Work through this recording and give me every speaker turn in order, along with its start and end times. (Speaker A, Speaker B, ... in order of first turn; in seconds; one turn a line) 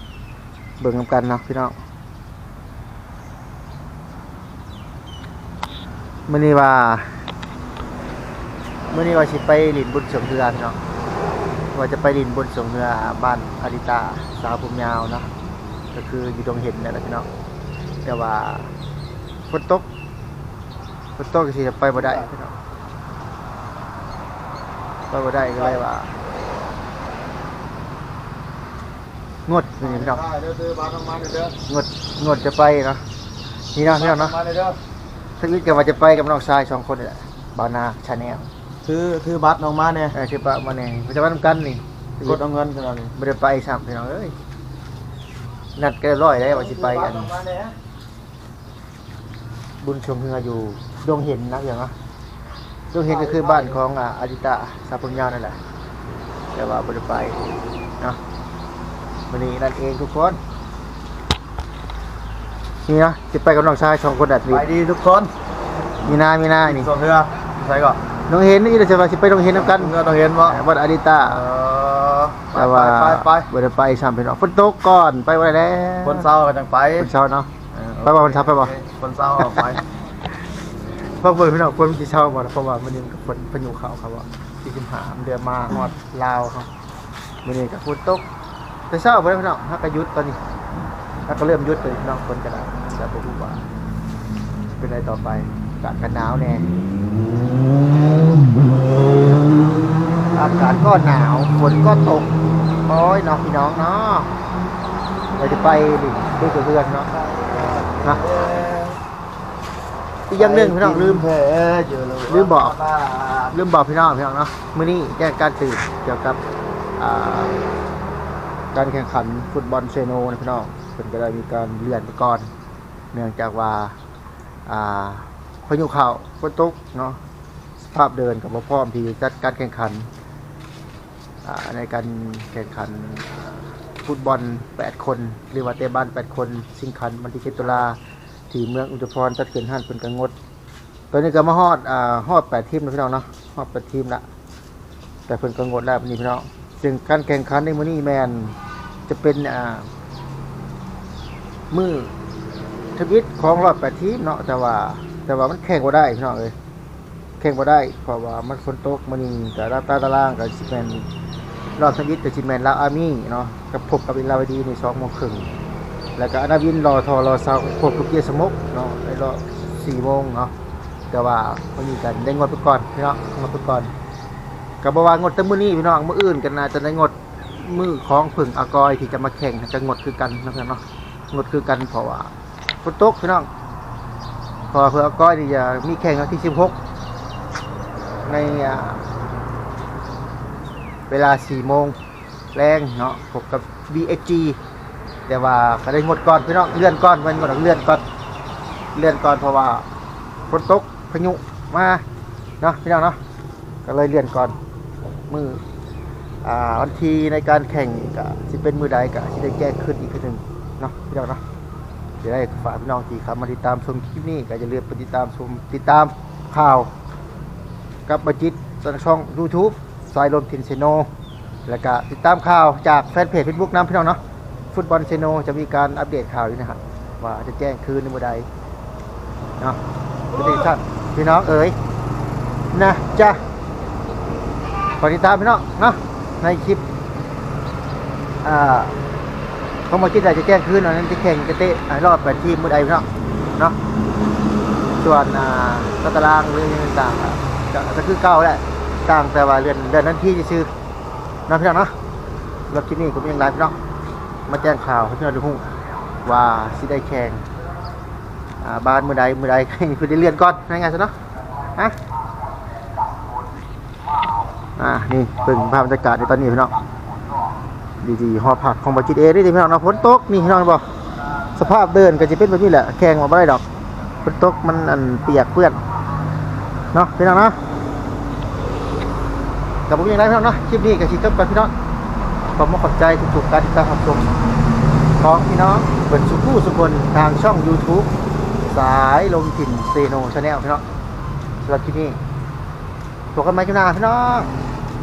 Speaker A: 0.8-1.8
Speaker A: 6.3-7.2
Speaker A: 8.9-10.8
Speaker A: 11.7-15.3
Speaker A: 15.9-17.3
Speaker A: 18.0-18.7
Speaker A: 19.5-19.9
Speaker A: 21.2-22.5
Speaker A: 25.1-26.1
Speaker A: 29.4-30.2
Speaker B: 29.8-31.6
Speaker A: 31.6-33.0
Speaker A: 33.7-34.4
Speaker B: 33.8-34.8
Speaker A: 35.4-38.5
Speaker B: 38.8-40.1
Speaker A: 40.1-42.4
Speaker B: 42.2-43.1
Speaker A: 43.1-44.3
Speaker A: 45.8-47.3
Speaker B: 46.4-47.7
Speaker A: 49.8-51.9
Speaker A: 52.9-55.6
Speaker B: 53.1-53.8
Speaker A: 56.5-57.4
Speaker A: 59.3-60.4
Speaker A: 62.9-64.7
Speaker B: 64.5-65.3
Speaker A: 66.0-66.9
Speaker B: 66.7-68.0
Speaker A: 68.3-71.4
Speaker B: 69.5-70.6
Speaker B: 71.3-73.5
Speaker A: 72.5-76.3
Speaker B: 76.0-77.1
Speaker A: 77.0-78.8
Speaker B: 77.9-79.8
Speaker A: 79.4-79.7
Speaker A: 81.2-86.7
Speaker A: 87.4-88.2
Speaker A: 88.9-90.4
Speaker A: 91.3-93.7
Speaker A: 94.8-96.7
Speaker A: 100.3-102.3
Speaker A: 102.8-104.3
Speaker A: 105.4-107.1
Speaker B: 107.1-109.0
Speaker A: 110.3-111.3
Speaker B: 110.3-113.5
Speaker A: 112.3-112.8
Speaker A: 113.5-116.4
Speaker A: 117.0-117.6
Speaker A: 118.7-122.5
Speaker A: 123.1-123.9
Speaker A: 124.7-127.2
Speaker A: 127.8-130.1
Speaker A: 131.4-138.0
Speaker A: 138.5-140.3
Speaker A: 141.1-144.2
Speaker A: 145.3-148.6
Speaker A: 149.1-149.9
Speaker A: 151.7-152.1
Speaker A: 152.9-156.5
Speaker A: 157.4-161.1
Speaker A: 161.8-165.5
Speaker A: 166.2-170.5
Speaker A: 171.1-173.9
Speaker A: 174.8-183.5
Speaker A: 184.7-186.8
Speaker A: 188.2-189.0
Speaker A: 191.1-191.9
Speaker A: 192.5-194.6
Speaker A: 195.3-198.0
Speaker A: 198.9-199.9
Speaker A: 200.5-202.0
Speaker A: 202.6-203.2
Speaker A: 203.8-204.6
Speaker A: 205.3-205.6
Speaker A: 206.4-211.4
Speaker A: 212.2-216.9
Speaker A: 218.1-221.1
Speaker A: 221.7-224.2
Speaker A: 224.7-228.5
Speaker A: 230.3-231.8
Speaker A: 232.7-233.4
Speaker A: 235.0-236.8
Speaker A: 238.4-239.0
Speaker A: 239.9-243.8
Speaker A: 245.0-250.7
Speaker A: 251.5-251.9
Speaker A: 252.7-253.8
Speaker A: 254.5-257.4
Speaker A: 258.6-261.1
Speaker A: 264.8-266.7
Speaker A: 268.0-270.8
Speaker A: 271.5-273.6
Speaker A: 274.2-275.8
Speaker A: 276.9-277.6
Speaker A: 279.9-281.7
Speaker A: 282.5-284.3
Speaker A: 285.2-288.1
Speaker A: 288.6-290.8
Speaker A: 291.6-292.2
Speaker A: 293.3-294.5